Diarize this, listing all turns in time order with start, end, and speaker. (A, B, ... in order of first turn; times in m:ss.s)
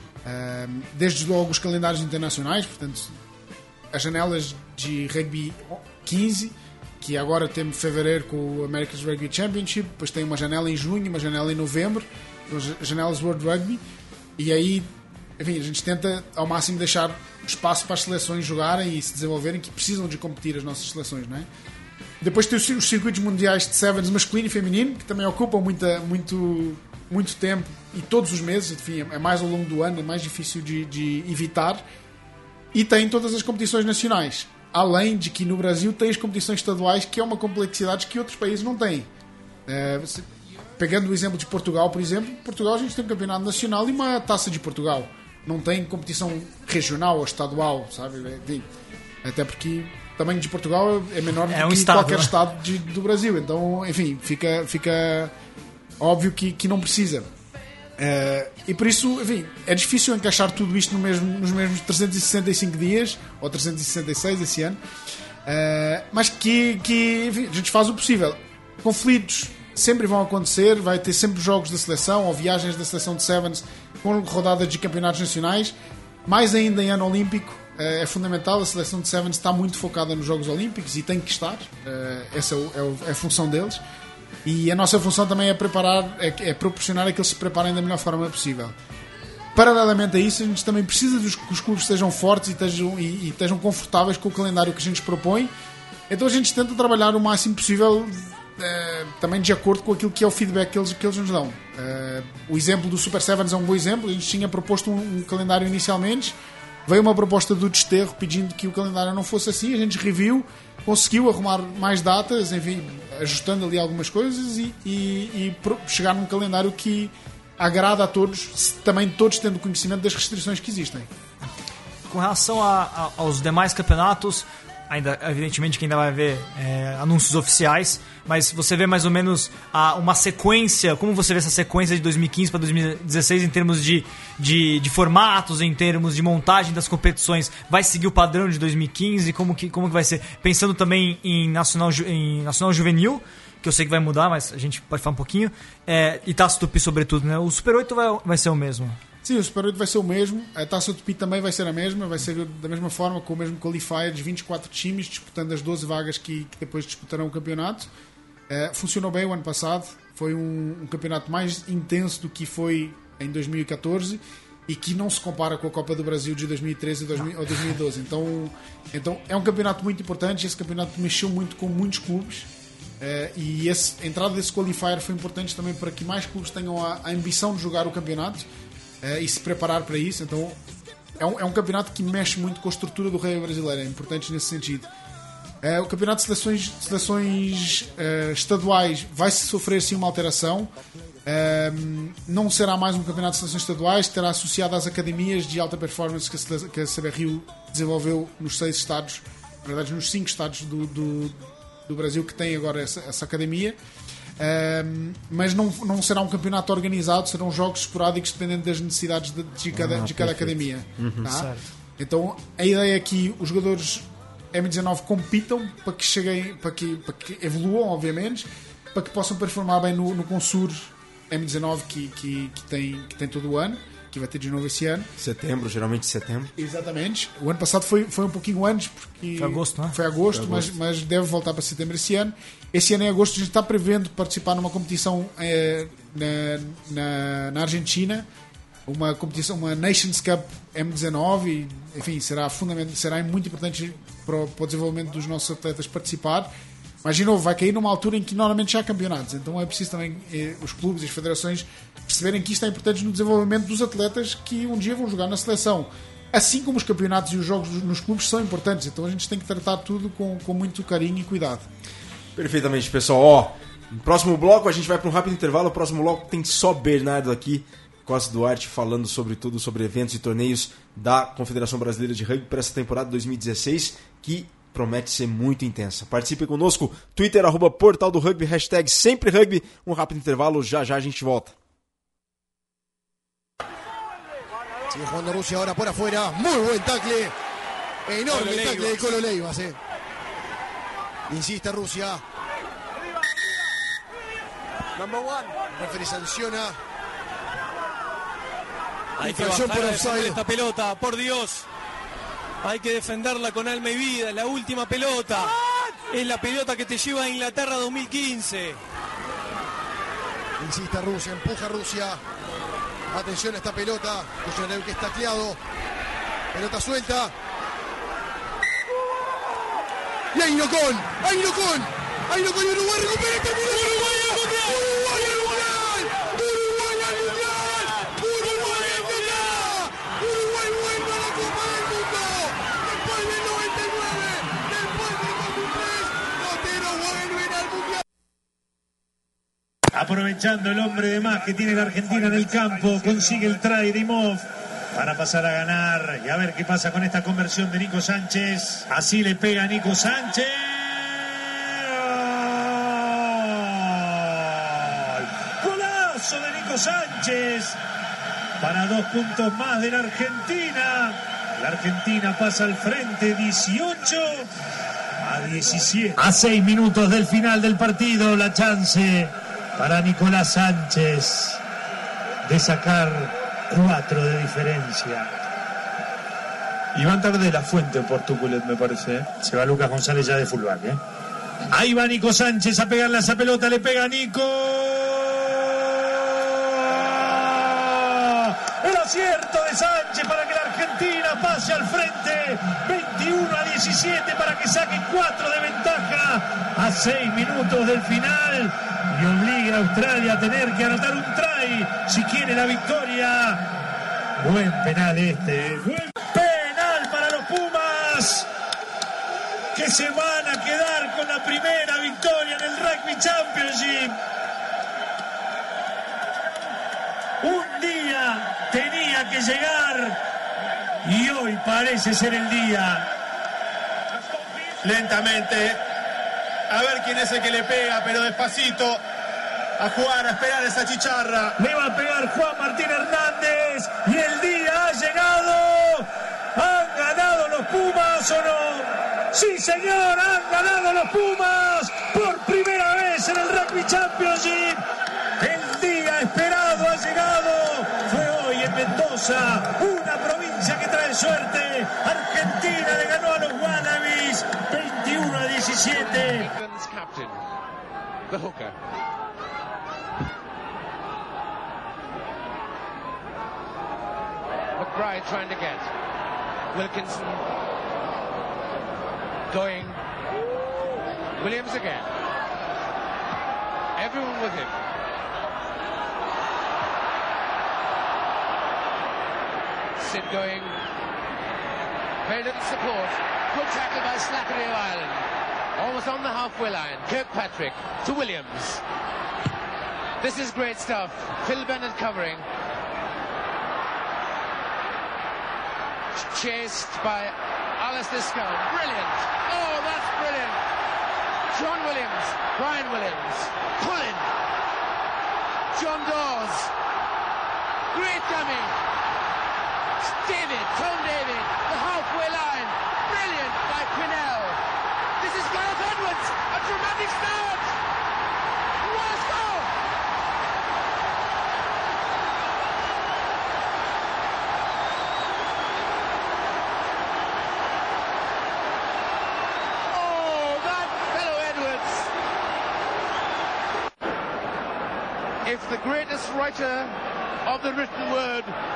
0:00.2-0:03.1 A
0:03.9-0:13.8 A
0:14.4-0:14.9 A
0:15.4-0:21.5 A
0:22.2-0:31.8 A
0:32.7-0:39.1 A
0:39.7-0:48.7 A
0:49.2-0:55.3 A
0:51.5-0:52.3 B
0:56.0-0:57.3 A
0:58.0-1:04.8 A
1:05.4-1:15.7 A
1:16.2-1:23.8 A
1:24.4-1:28.7 A
1:29.5-1:35.5 A
1:36.1-2:01.1 A
2:02.1-2:29.0 B
2:29.2-2:37.9 A
2:38.5-2:52.5 A
2:53.0-2:58.4 A
2:59.0-3:00.6 A
3:01.2-3:04.9 A
3:05.6-3:10.7 A
3:11.2-3:23.8 A
3:24.4-3:45.1 A
3:29.7-3:31.3 C
3:31.2-3:31.7 B
3:45.2-3:46.5 C
3:46.6-3:58.2 A
3:49.4-3:50.0 B
3:50.3-3:50.7 C
3:58.8-4:06.5 A
4:07.0-4:21.7 A
4:22.4-4:41.6 C
4:44.9-4:47.3 D
4:48.0-4:49.8 D
4:48.3-4:49.0 E
4:51.3-4:52.2 D
4:55.0-4:56.8 D
4:59.2-5:01.6 E
4:59.2-5:00.4 D
5:02.6-5:05.5 E
5:06.1-5:08.8 E
5:10.6-5:12.2 D
5:13.1-5:15.6 D
5:16.5-5:17.3 D
5:20.3-5:38.0 D
5:39.9-5:57.8 F
5:58.6-6:04.5 F
6:05.2-6:11.6 F
6:12.4-6:15.3 F
6:16.9-6:21.0 F
6:21.7-6:43.6 F
6:44.4-6:48.4 F
6:49.7-6:54.1 F
6:57.4-7:00.2 F
7:01.0-7:03.1 F
7:04.8-7:05.8 G
7:06.7-7:09.0 G
7:09.8-7:11.5 G
7:11.6-7:24.8 F
7:25.4-7:36.5 F
7:35.9-7:37.4 H
7:38.3-7:38.7 H
7:44.8-7:45.9 H
7:46.7-7:47.4 H
7:49.5-7:50.0 H
7:51.4-7:52.1 H
7:54.0-7:54.8 H
8:00.0-8:00.7 H
8:02.2-8:08.8 H
8:10.2-8:12.4 H
8:16.2-8:20.6 H
8:21.5-8:24.3 H
8:25.7-8:26.7 H
8:27.9-8:28.7 H
8:30.1-8:34.6 H
8:35.2-8:37.7 H
8:38.8-8:39.7 H
8:49.9-8:52.1 H
8:55.4-8:58.5 H